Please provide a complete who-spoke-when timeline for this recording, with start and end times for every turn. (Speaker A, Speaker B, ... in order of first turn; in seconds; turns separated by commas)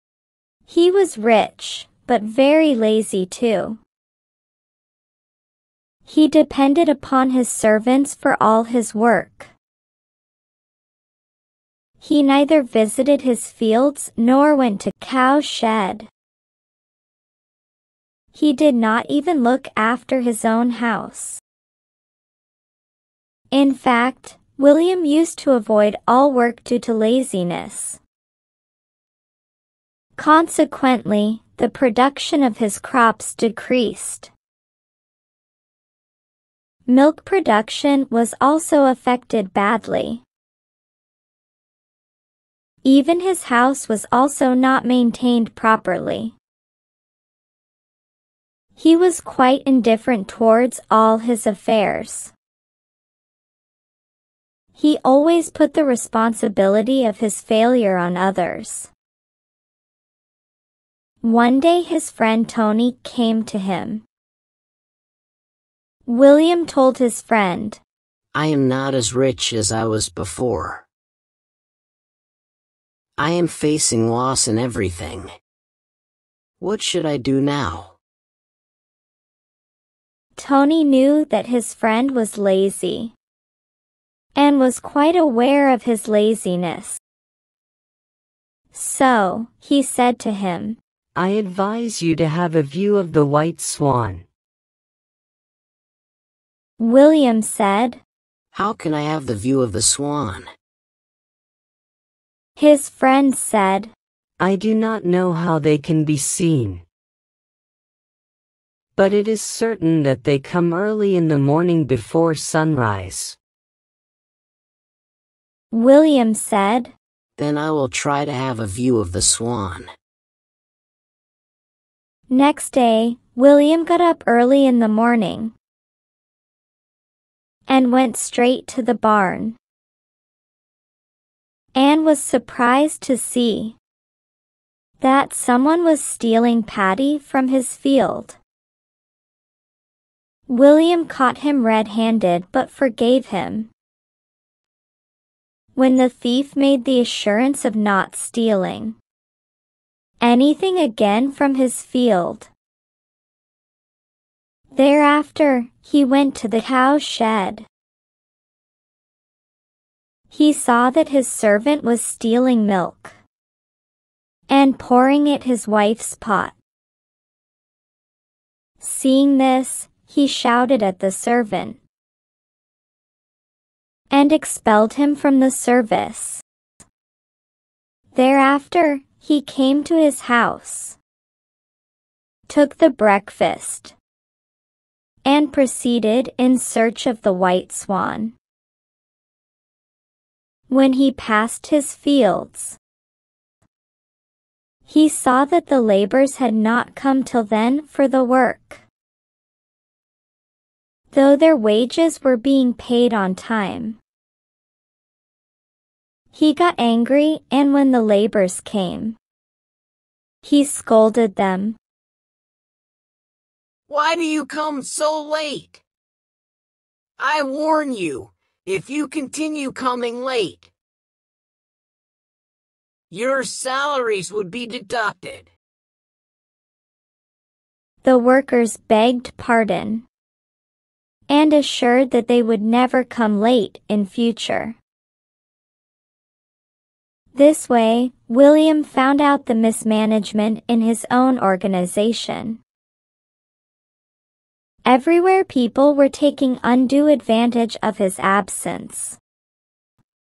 Speaker A: 0.7-3.8, Speaker A: 6.1-9.5, Speaker A: 12.0-16.1, Speaker A: 18.3-21.4, Speaker A: 23.5-28.0, Speaker A: 30.1-34.3, Speaker A: 36.9-40.2, Speaker A: 42.8-46.3, Speaker A: 48.8-52.3, Speaker A: 54.7-58.9, Speaker A: 61.2-64.0, Speaker A: 66.0-67.8, Speaker B: 68.3-70.8, Speaker B: 73.2-75.3, Speaker B: 76.6-78.0, Speaker A: 80.3-83.1, Speaker A: 84.3-87.0, Speaker A: 88.7-90.8, Speaker C: 91.2-94.2, Speaker A: 96.8-98.0, Speaker B: 98.5-100.5, Speaker A: 102.5-103.9, Speaker C: 104.4-106.8, Speaker C: 109.0-113.4, Speaker A: 115.7-116.9, Speaker B: 117.4-119.9, Speaker A: 122.3-125.5, Speaker A: 127.7-129.6, Speaker A: 131.7-133.8, Speaker A: 135.0-138.4, Speaker A: 140.5-143.7, Speaker A: 145.8-148.9, Speaker A: 150.2-152.5, Speaker A: 154.7-157.7, Speaker A: 160.3-163.2, Speaker A: 164.5-166.6, Speaker A: 168.8-171.8, Speaker A: 174.1-176.4, Speaker A: 178.1-181.0, Speaker A: 182.5-183.9, Speaker A: 185.2-188.3, Speaker A: 190.7-192.8, Speaker A: 194.9-198.8, Speaker A: 201.1-204.0, Speaker A: 206.3-209.2, Speaker A: 210.4-211.8, Speaker B: 213.9-215.8, Speaker B: 217.2-220.7, Speaker B: 223.1-225.5, Speaker A: 228.0-230.0, Speaker A: 231.3-234.8, Speaker A: 237.3-242.6, Speaker A: 244.8-249.2